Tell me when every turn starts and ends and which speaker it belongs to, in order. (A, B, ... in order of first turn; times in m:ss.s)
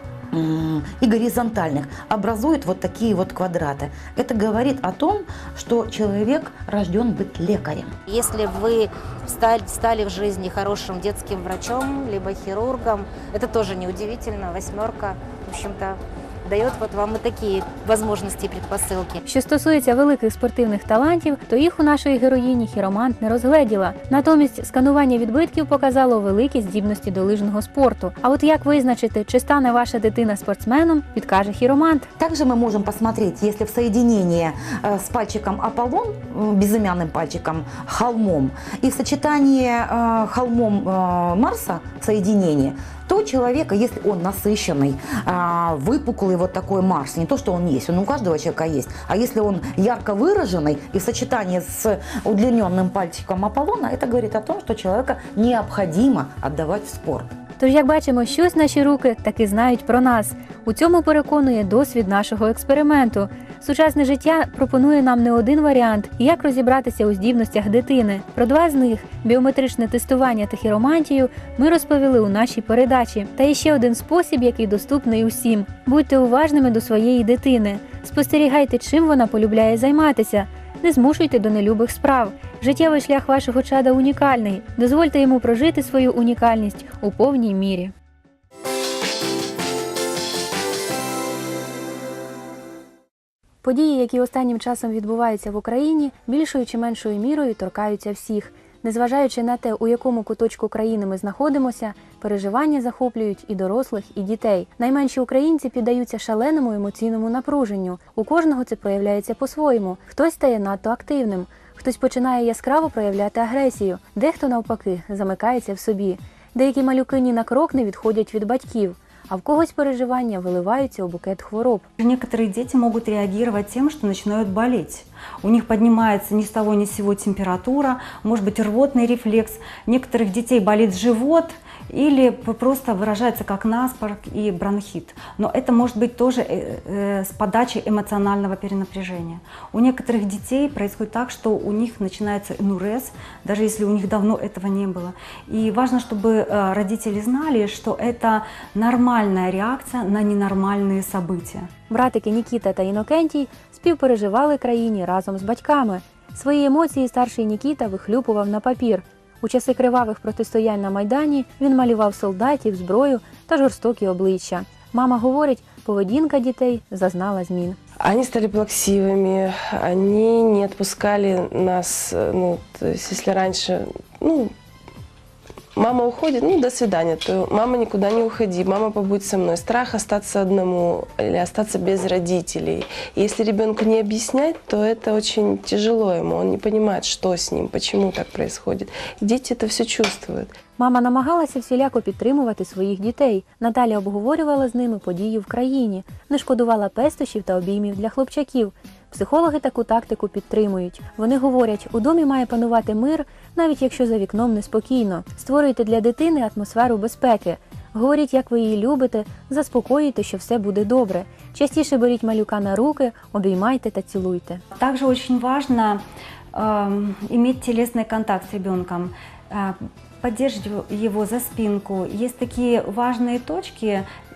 0:00.3-0:07.9 A
0:08.1-0:19.2 B
0:19.2-0:32.1 C
0:32.2-0:57.3 A
0:57.6-1:27.9 C
1:33.6-2:01.8 C
2:02.0-2:31.7 D
2:31.9-2:47.8 C
2:48.0-2:54.5 E
2:55.8-3:10.5 E
3:10.8-3:34.6 C
3:34.7-3:36.0 D
3:36.5-3:44.0 D